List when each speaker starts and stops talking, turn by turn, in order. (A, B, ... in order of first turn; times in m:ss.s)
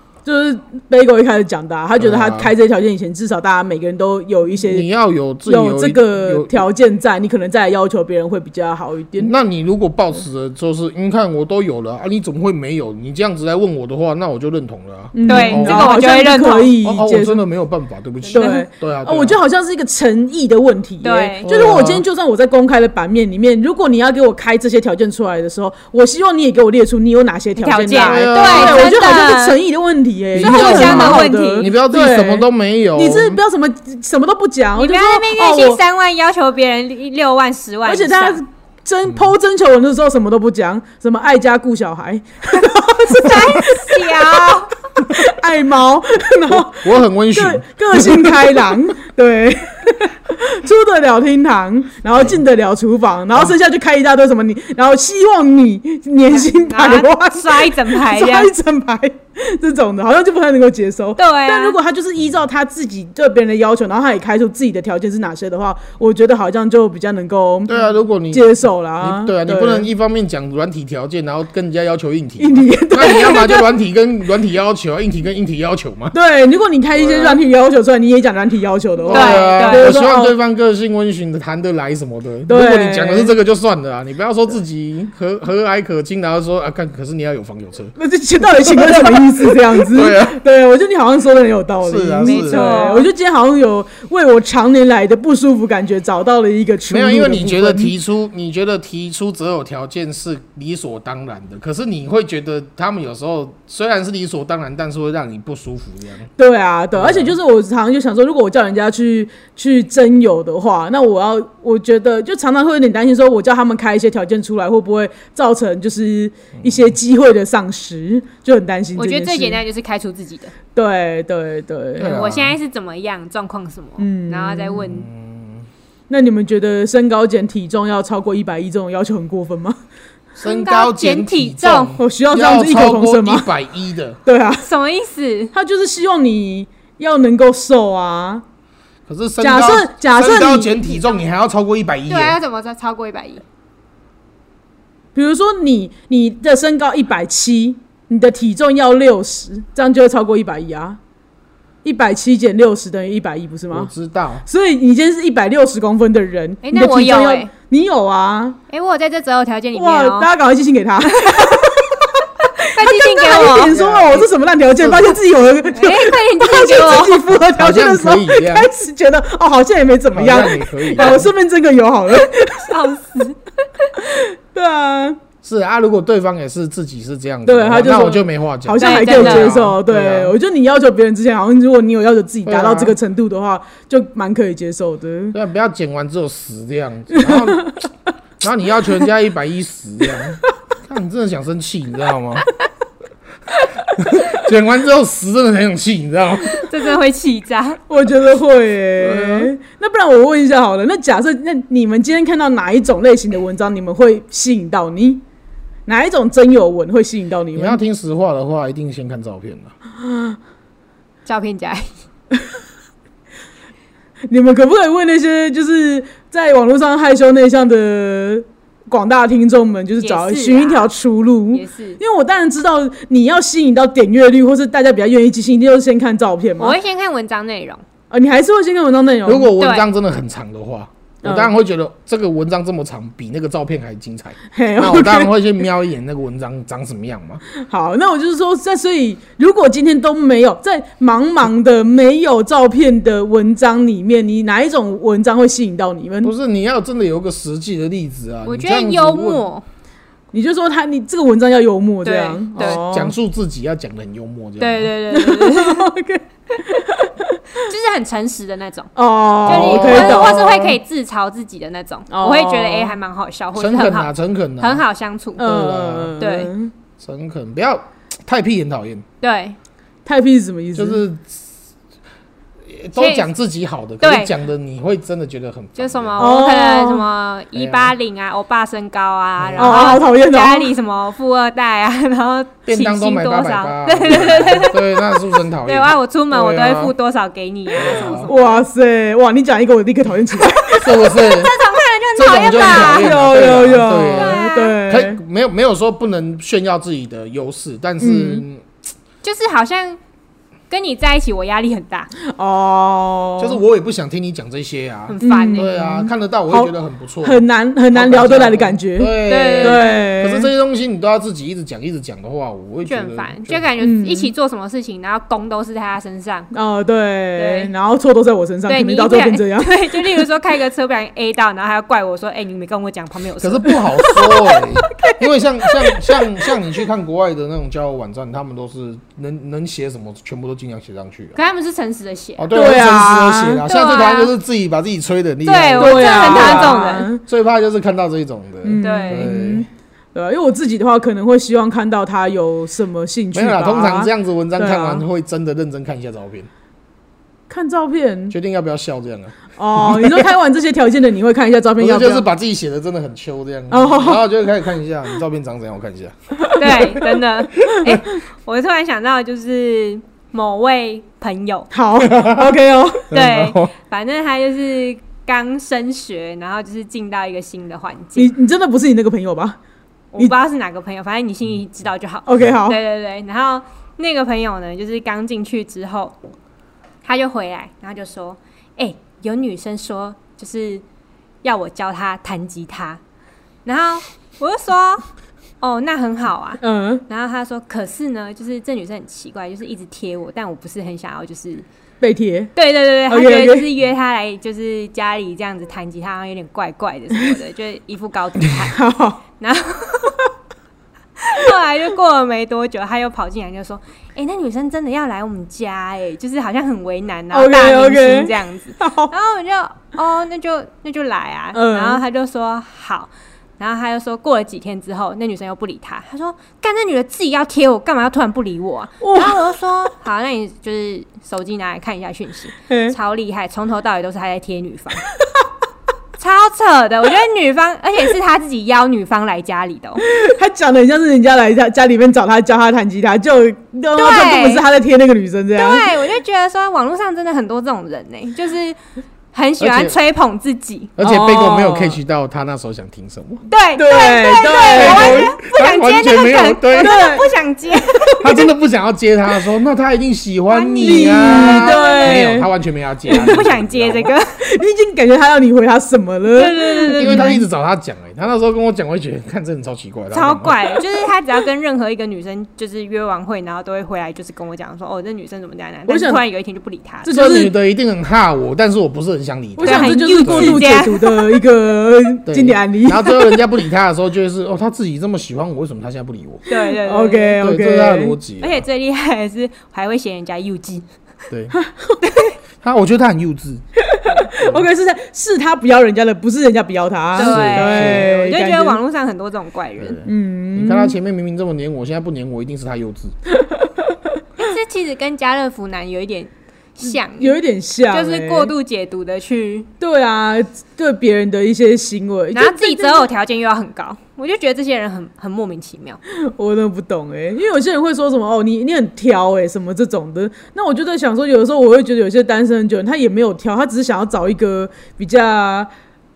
0:00.2-0:04.9 A
0:02.0-0:02.5 B
0:04.6-0:06.6 B
0:05.4-0:09.3 A
0:09.2-0:16.0 B
0:15.1-0:17.4 A
0:15.3-0:16.8 C
0:16.8-0:19.4 B
0:18.3-0:18.6 C
0:18.3-0:35.8 A
0:21.0-0:21.5 C
0:21.4-0:22.0 B
0:27.6-0:29.6 C
0:27.9-0:29.0 B
0:30.3-0:33.4 B
0:30.4-0:31.7 C
0:34.8-0:38.4 C
0:37.9-1:09.9 A
0:43.0-0:44.7 C
0:46.5-0:48.8 B
0:56.3-0:58.5 C
1:01.2-1:01.8 C
1:07.7-1:16.2 B
1:12.4-1:13.7 A
1:16.1-1:20.3 A
1:17.0-1:17.4 B
1:19.0-1:27.9 B
1:19.1-1:19.9 C
1:22.5-1:23.3 A
1:28.0-1:37.9 A
1:28.6-1:30.4 B
1:31.8-1:32.8 B
1:32.2-1:33.1 C
1:36.9-1:46.3 B
1:46.4-1:59.6 A
1:47.0-1:47.4 B
1:59.0-2:00.5 C
2:00.8-2:02.2 A
2:02.0-2:02.6 B
2:02.0-2:05.1 C
2:04.0-2:05.0 A
2:05.1-2:05.6 B
2:06.1-2:09.8 A
2:10.4-2:14.2 B
2:10.5-2:12.0 C
2:12.0-2:13.5 A
2:14.2-2:14.7 A
2:14.6-2:15.5 C
2:15.5-2:18.4 A
2:19.1-2:22.4 B
2:19.4-2:20.8 A
2:22.1-2:23.4 C
2:25.2-2:31.0 A
2:31.8-2:33.9 A
2:33.7-2:34.4 B
2:34.4-2:38.6 A
2:36.6-2:37.5 C
2:38.7-2:40.3 C
2:39.7-2:53.0 A
2:41.2-2:41.7 C
2:42.6-2:43.8 C
2:43.3-2:45.2 B
2:45.7-2:47.3 C
2:47.6-2:48.7 B
2:50.1-2:51.3 B
2:52.4-2:53.9 C
2:54.0-2:55.2 A
2:55.4-3:00.4 B
2:57.4-3:05.4 A
2:58.8-2:59.6 C
3:02.5-3:03.0 B
3:05.3-3:07.7 B
3:07.2-3:07.7 A
3:08.4-3:12.5 B
3:13.9-3:16.6 B
3:16.5-3:17.8 C
3:17.9-3:25.2 A
3:19.0-3:19.5 B
3:25.9-3:27.8 A
3:27.6-3:29.7 B
3:30.0-3:30.4 A
3:31.3-3:31.9 C
3:34.3-3:46.8 A
3:40.0-3:40.9 C
3:41.5-3:42.0 C
3:46.6-3:47.8 C
3:48.1-3:49.5 A
3:49.3-3:57.4 B
3:49.6-3:49.9 C
3:51.2-3:51.5 A
3:54.5-3:55.3 A
3:57.5-4:06.3 A
4:06.2-4:09.4 B
4:08.5-4:09.6 C
4:10.3-4:13.1 A
4:12.0-4:12.8 C
4:12.6-4:14.9 B
4:14.6-4:15.9 C
4:15.1-4:17.6 A
4:17.6-4:18.9 C
4:19.0-4:20.8 A
4:19.4-4:25.5 C
4:19.4-4:20.5 B
4:22.1-4:23.0 A
4:23.6-4:24.8 B
4:25.4-4:26.7 A
4:25.4-4:26.1 B
4:26.2-4:26.5 C
4:27.0-4:29.0 B
4:29.2-4:29.6 C
4:30.1-4:31.0 A
4:30.8-4:31.4 B
4:32.7-4:36.3 B
4:33.0-4:33.3 C
4:34.0-4:34.3 C
4:35.8-4:48.6 C
4:36.2-4:37.1 A
4:37.6-4:38.0 B
4:39.4-4:40.0 B
4:39.6-4:40.7 A
4:42.7-4:46.9 B
4:47.7-4:48.3 B
4:48.3-4:50.9 A
4:50.4-4:54.8 C
4:50.7-4:51.6 B
4:52.2-4:58.6 B
4:52.5-4:55.2 A
4:58.0-4:58.4 A
4:59.2-5:00.0 C
5:00.7-5:02.1 C
5:02.2-5:03.6 A
5:03.4-5:13.6 B
5:05.1-5:05.7 C
5:05.2-5:10.5 A
5:09.3-5:10.0 C
5:12.9-5:16.5 C
5:13.8-5:14.3 A
5:16.5-5:20.2 A
5:17.4-5:17.7 C
5:18.7-5:24.5 C
5:23.4-5:31.4 B
5:24.0-5:25.1 A
5:31.4-5:32.5 C
5:32.4-5:39.7 B
5:32.5-5:33.6 A
5:33.6-5:34.3 C
5:35.4-5:37.1 C
5:35.8-5:37.2 A
5:38.6-5:45.0 A
5:38.8-5:39.3 C
5:43.3-5:46.5 B
5:47.5-5:48.3 A
5:48.3-5:50.3 B
5:49.6-5:52.3 A
5:51.8-5:56.1 B
5:53.7-5:54.2 A
5:56.4-5:57.2 A
5:56.6-6:01.7 C
5:57.7-5:58.0 B
6:01.7-6:03.1 A
6:02.0-6:02.5 B
6:03.1-6:03.7 B
6:03.1-6:08.3 C
6:08.2-6:09.6 A
6:10.1-6:16.2 C
6:12.3-6:12.8 A
6:17.0-6:20.8 C
6:21.4-6:23.0 C
6:23.6-6:25.0 C
6:25.6-6:31.6 C
6:26.6-6:27.0 A
6:32.0-6:32.5 A
6:32.6-6:40.3 C
6:33.1-6:33.7 A
6:38.7-6:39.2 A
6:41.2-7:05.0 C
6:47.3-6:49.1 A
6:51.5-6:52.0 A
6:59.0-6:59.5 A
7:02.7-7:03.0 A
7:06.2-7:10.0 C
7:10.0-7:15.9 A
7:14.0-7:14.6 C
7:15.6-7:18.8 C
7:19.3-7:20.9 C
7:19.6-7:20.0 B
7:21.0-7:23.4 B
7:21.0-7:22.0 A
7:23.5-7:28.5 C
7:23.8-7:25.3 A
7:24.7-7:27.0 B
7:26.8-7:27.2 A
7:28.2-7:34.1 B
7:30.5-7:32.3 C
7:30.8-7:32.5 A
7:33.1-7:34.4 C
7:34.4-7:37.4 A
7:36.4-7:37.3 C
7:37.0-7:40.6 B
7:40.1-7:47.1 C
7:45.9-7:46.2 A
7:47.0-7:47.5 A
7:47.1-7:50.8 B
7:49.6-7:53.4 A
7:49.6-7:51.4 C
7:52.3-7:56.4 B
7:56.5-7:57.4 C
7:56.6-7:58.2 A
7:57.4-7:58.6 B
7:58.4-8:00.8 C
8:01.6-8:02.0 A
8:02.0-8:02.4 C
8:02.6-8:03.6 B
8:03.9-8:08.8 A
8:04.4-8:04.7 B
8:07.2-8:10.0 C
8:07.2-8:08.1 B
8:09.8-8:13.1 B
8:10.1-8:10.9 A
8:13.4-8:13.7 A
8:14.4-8:19.7 C
8:16.8-8:18.5 A
8:19.8-8:23.1 A
8:22.3-8:26.0 C
8:26.3-8:35.7 A